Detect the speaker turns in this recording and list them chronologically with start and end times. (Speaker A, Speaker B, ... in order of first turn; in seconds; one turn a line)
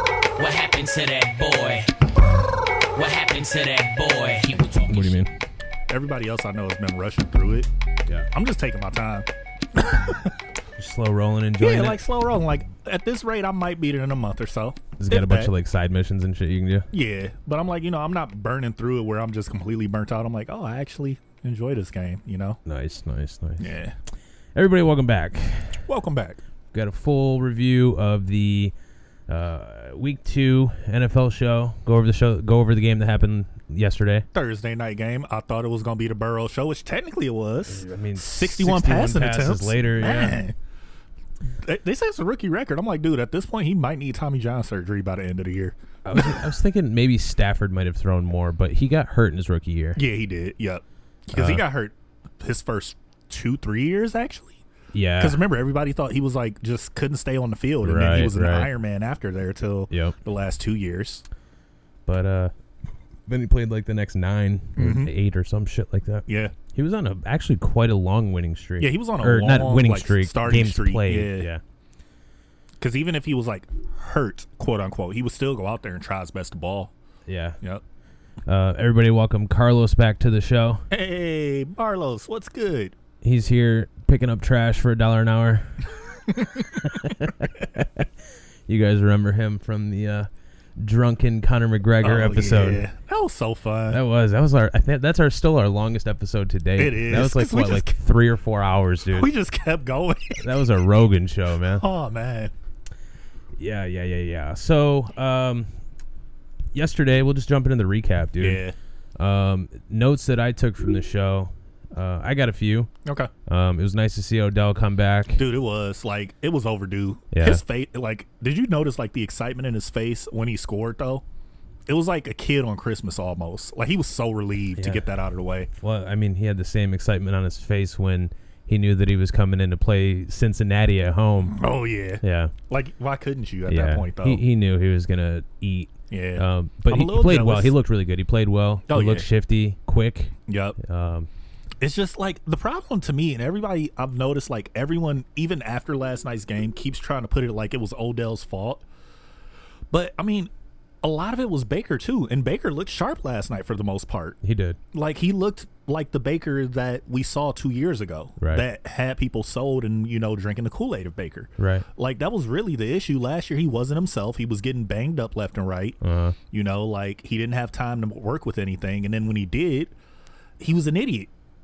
Speaker A: 0.4-1.9
Speaker A: 2.9-5.2
Speaker B: 4.9-5.3
Speaker C: 5.9-7.7
Speaker C: 8.3-10.4
Speaker B: 10.8-12.0
Speaker C: 11.6-15.5
Speaker B: 15.0-16.9
Speaker C: 16.9-22.6
Speaker B: 22.7-23.8
Speaker C: 23.6-23.9
Speaker B: 24.6-25.9
Speaker C: 25.9-26.4
Speaker B: 26.7-28.8
Speaker B: 29.3-34.3
Speaker C: 34.3-40.5
Speaker B: 37.7-40.4
Speaker C: 41.4-46.4
Speaker B: 46.0-50.0
Speaker C: 50.0-54.6
Speaker B: 51.3-51.6
Speaker B: 54.9-55.4
Speaker C: 55.2-61.2
Speaker B: 57.8-58.7
Speaker B: 59.9-60.2
Speaker B: 62.1-62.5
Speaker B: 63.3-71.6
Speaker C: 64.8-65.1
Speaker C: 66.3-66.5
Speaker C: 68.8-71.5
Speaker C: 72.8-76.9
Speaker B: 77.3-77.6
Speaker B: 78.5-80.9
Speaker C: 80.9-83.0
Speaker B: 83.2-86.0
Speaker C: 86.3-86.6
Speaker B: 86.6-88.1
Speaker B: 88.7-92.8
Speaker C: 92.0-94.0
Speaker B: 93.9-99.3
Speaker C: 96.8-98.0
Speaker C: 99.1-100.5
Speaker B: 100.4-101.8
Speaker C: 101.7-102.5
Speaker B: 103.6-105.8
Speaker B: 106.7-108.6
Speaker C: 108.4-108.8
Speaker B: 109.2-112.9
Speaker C: 113.0-113.3
Speaker B: 113.5-115.4
Speaker C: 115.4-121.2
Speaker B: 117.3-117.6
Speaker C: 121.9-125.7
Speaker B: 124.8-125.1
Speaker B: 125.8-131.6
Speaker C: 131.5-134.4
Speaker B: 132.2-132.5
Speaker B: 133.7-141.3
Speaker C: 136.1-137.7
Speaker C: 138.9-139.3
Speaker C: 140.5-140.8
Speaker C: 141.8-148.8
Speaker C: 149.9-150.5
Speaker C: 151.0-154.4
Speaker B: 154.4-154.8
Speaker C: 154.9-166.0
Speaker B: 158.4-158.7
Speaker B: 161.6-161.9
Speaker B: 166.0-166.4
Speaker C: 166.5-169.9
Speaker C: 170.6-171.3